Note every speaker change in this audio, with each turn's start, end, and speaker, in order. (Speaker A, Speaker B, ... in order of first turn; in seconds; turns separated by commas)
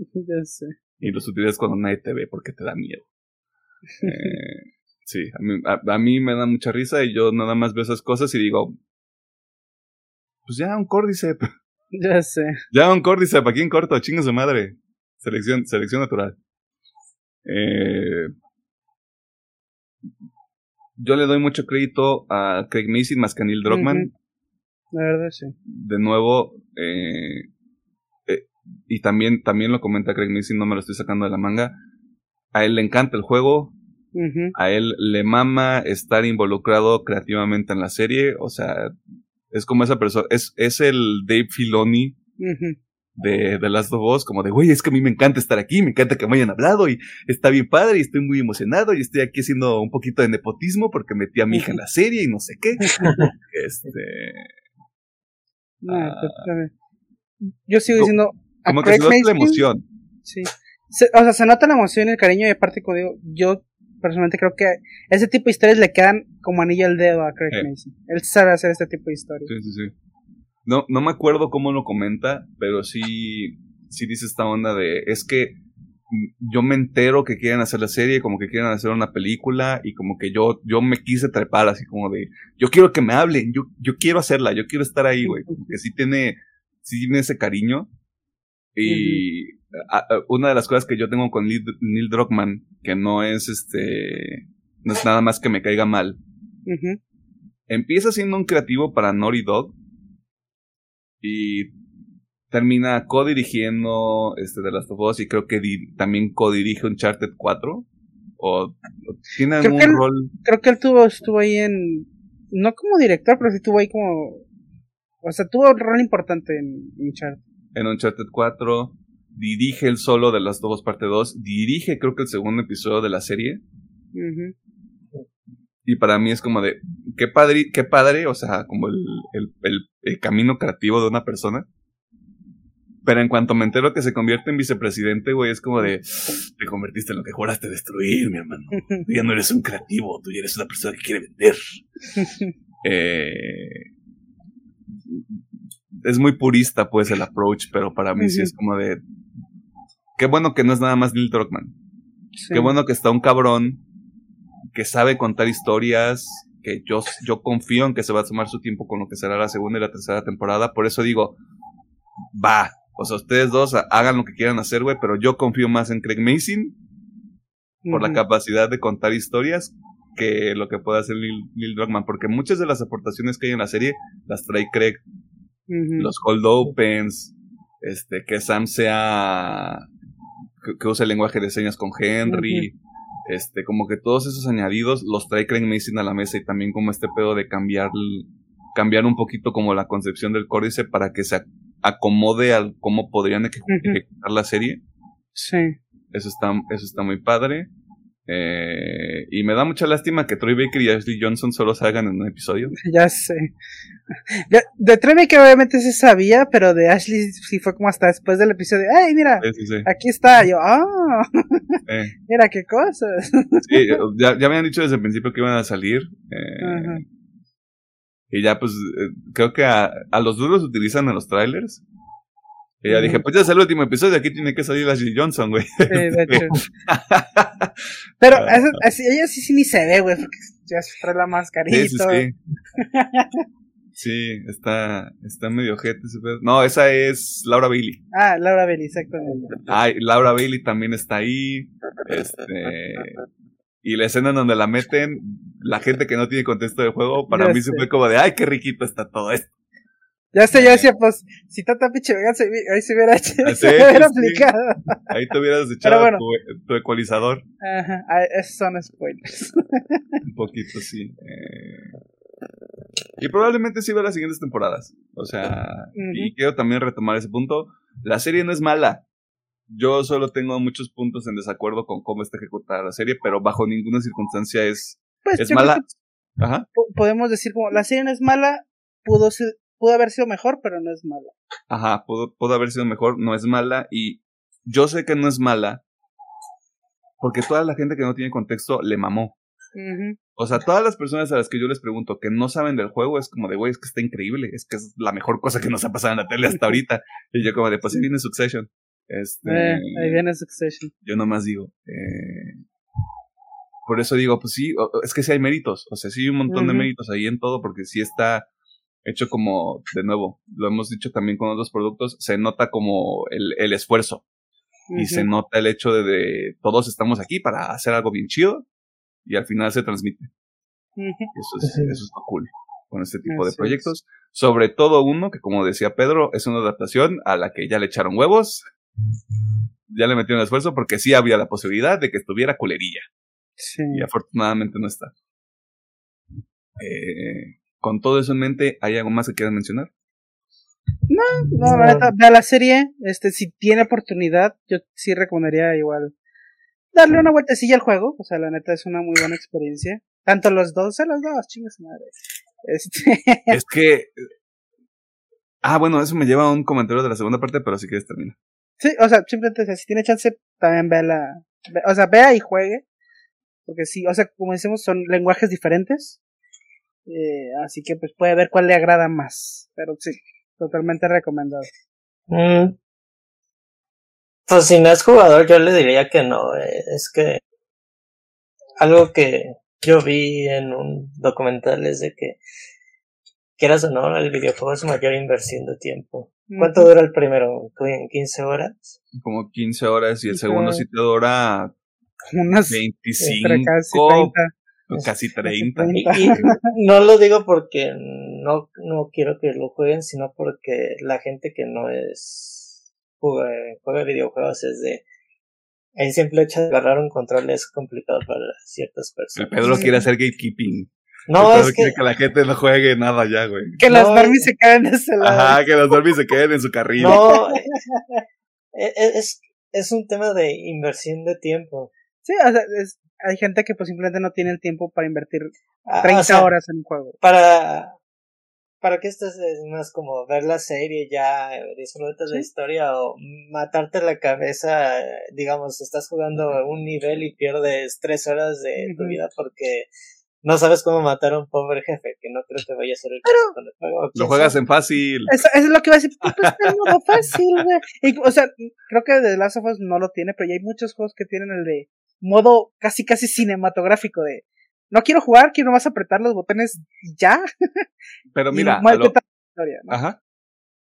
Speaker A: 0.1-0.7, Speaker B: 1.0-3.1, Speaker A: 4.0-4.4, Speaker B: 4.0-8.8, Speaker B: 10.5-11.5, Speaker A: 12.0-12.6, Speaker B: 12.7-16.4, Speaker B: 17.4-18.3, Speaker B: 21.0-24.1, Speaker A: 23.7-24.1, Speaker A: 24.9-25.5, Speaker B: 25.7-27.5, Speaker B: 28.3-31.8, Speaker B: 32.5-33.8, Speaker A: 34.1-34.5, Speaker B: 34.5-38.9, Speaker B: 39.5-42.2, Speaker A: 42.4-42.8, Speaker B: 43.2-54.5, Speaker A: 51.5-51.8, Speaker A: 52.8-53.2, Speaker C: 53.0-53.3, Speaker A: 55.8-56.7, Speaker B: 55.9-56.5, Speaker A: 57.4-59.6, Speaker B: 58.6-59.9, Speaker A: 60.2-69.5, Speaker B: 69.5-69.9, Speaker B: 70.7-75.6, Speaker B: 76.1-87.9, Speaker A: 85.3-85.6, Speaker B: 88.8-96.2, Speaker A: 88.9-89.2, Speaker A: 96.7-97.0, Speaker B: 97.7-99.8, Speaker B: 101.2-101.7, Speaker B: 102.5-107.9, Speaker B: 108.4-110.3, Speaker A: 109.6-114.4, Speaker A: 115.2-117.4, Speaker B: 117.8-123.6, Speaker A: 124.1-124.5, Speaker B: 125.8-131.7, Speaker B: 133.1-141.6, Speaker A: 142.2-142.5, Speaker B: 142.8-143.9, Speaker B: 144.9-145.4, Speaker B: 146.0-149.0, Speaker A: 148.2-148.5, Speaker B: 150.2-151.7, Speaker A: 152.4-152.7, Speaker B: 152.5-153.8, Speaker B: 154.7-161.4, Speaker B: 162.3-166.8, Speaker A: 167.9-168.2, Speaker B: 167.9-175.0, Speaker A: 175.7-176.1, Speaker B: 176.0-179.9, Speaker B: 180.6-182.8, Speaker A: 182.3-182.7, Speaker B: 183.3-194.8, Speaker A: 193.7-194.0, Speaker A: 195.3-195.8, Speaker B: 196.1-197.7, Speaker B: 198.3-202.8, Speaker A: 202.8-203.5, Speaker A: 204.3-211.6, Speaker B: 209.4-209.9, Speaker B: 211.9-212.1, Speaker A: 212.3-214.0, Speaker B: 213.6-217.1, Speaker A: 216.6-217.0, Speaker B: 218.3-221.8, Speaker B: 222.8-227.8, Speaker A: 222.9-223.2, Speaker A: 225.9-226.6, Speaker A: 228.2-232.2, Speaker B: 228.3-228.8, Speaker B: 231.7-232.3, Speaker A: 232.8-233.4, Speaker B: 234.0-238.0, Speaker A: 238.1-239.6, Speaker B: 239.7-243.2, Speaker B: 243.8-249.5, Speaker A: 247.3-247.9, Speaker A: 250.3-255.0, Speaker B: 250.5-250.9, Speaker B: 253.4-254.5, Speaker B: 255.1-257.4, Speaker A: 255.8-256.2, Speaker A: 257.6-260.0, Speaker B: 260.2-262.0, Speaker B: 263.2-269.0, Speaker A: 266.0-266.3, Speaker B: 269.7-275.8, Speaker A: 275.2-275.9, Speaker B: 276.4-276.7, Speaker A: 276.8-281.4, Speaker B: 281.7-285.8, Speaker B: 287.2-289.4, Speaker A: 289.8-290.2, Speaker B: 290.4-300.2, Speaker A: 299.5-300.9, Speaker B: 301.0-302.6, Speaker B: 303.9-308.5, Speaker A: 306.5-306.9, Speaker B: 309.0-314.2, Speaker A: 314.9-315.3, Speaker B: 314.9-318.7, Speaker B: 319.2-320.3, Speaker A: 321.0-321.3, Speaker B: 321.3-328.6, Speaker C: 321.6-322.0, Speaker A: 323.3-323.9, Speaker B: 329.9-333.1, Speaker A: 333.6-334.1, Speaker B: 333.9-335.1, Speaker B: 336.8-339.9, Speaker A: 341.1-346.1, Speaker C: 341.7-342.0, Speaker A: 346.9-353.6, Speaker B: 353.5-354.2, Speaker B: 355.6-358.4, Speaker A: 358.8-362.8, Speaker A: 363.7-366.2, Speaker A: 367.1-371.7, Speaker C: 372.3-372.8, Speaker C: 374.5-377.4, Speaker C: 378.8-382.4, Speaker C: 383.6-389.0, Speaker A: 386.5-386.9, Speaker B: 389.1-391.7, Speaker A: 390.3-390.8, Speaker A: 392.3-392.8, Speaker B: 392.7-394.4, Speaker A: 393.4-394.5, Speaker B: 394.9-396.6, Speaker A: 395.7-396.5, Speaker C: 395.9-405.0, Speaker C: 406.0-409.8, Speaker B: 409.4-413.8, Speaker A: 409.6-410.0, Speaker C: 411.3-412.0, Speaker A: 413.8-415.7, Speaker C: 413.9-414.5, Speaker B: 415.2-417.2, Speaker C: 417.0-417.7, Speaker A: 417.1-418.2, Speaker C: 418.7-421.9, Speaker A: 422.2-427.2, Speaker C: 425.9-426.5, Speaker C: 427.2-428.0, Speaker C: 428.8-439.9, Speaker A: 438.8-439.2, Speaker C: 440.4-444.5, Speaker A: 443.3-443.6, Speaker B: 444.1-445.3, Speaker A: 444.2-444.5, Speaker A: 445.3-457.9, Speaker B: 446.4-447.4, Speaker B: 458.3-459.2, Speaker A: 458.5-460.0, Speaker B: 459.9-460.2